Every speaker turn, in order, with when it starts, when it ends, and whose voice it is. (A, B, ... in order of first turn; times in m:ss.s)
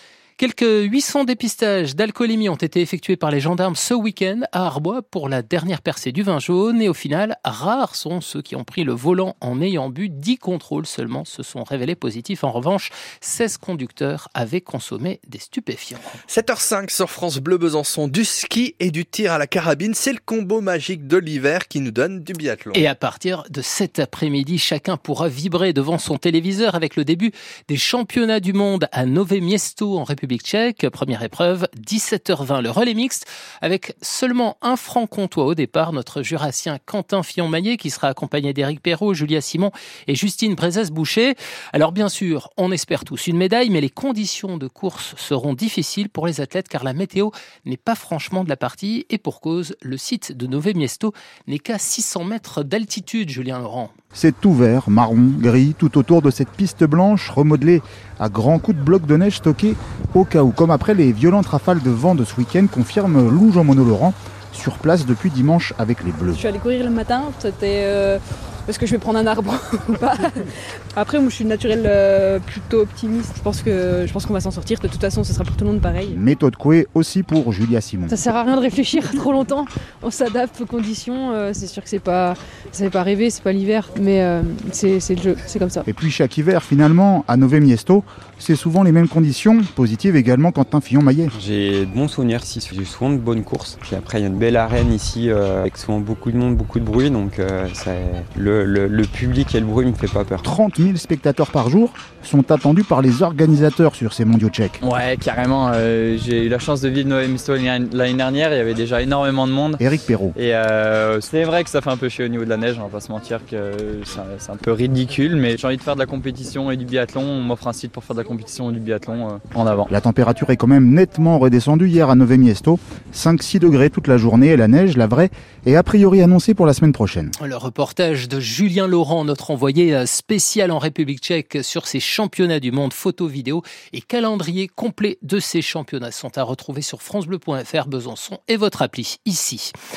0:00.4-0:16.2 A
0:16.3-0:22.8 B
0:22.7-0:53.9 A
0:54.1-1:06.4 C
1:06.4-1:10.2 D
1:11.0-1:16.2 D
1:16.1-1:18.2 C
1:18.1-1:25.8 D
1:25.9-1:31.3 C
1:31.3-1:40.4 E
1:40.4-1:44.8 C
1:44.8-1:49.8 F
1:49.8-1:50.4 C
1:50.4-1:59.9 F
1:59.9-2:07.3 C
2:07.4-2:19.7 A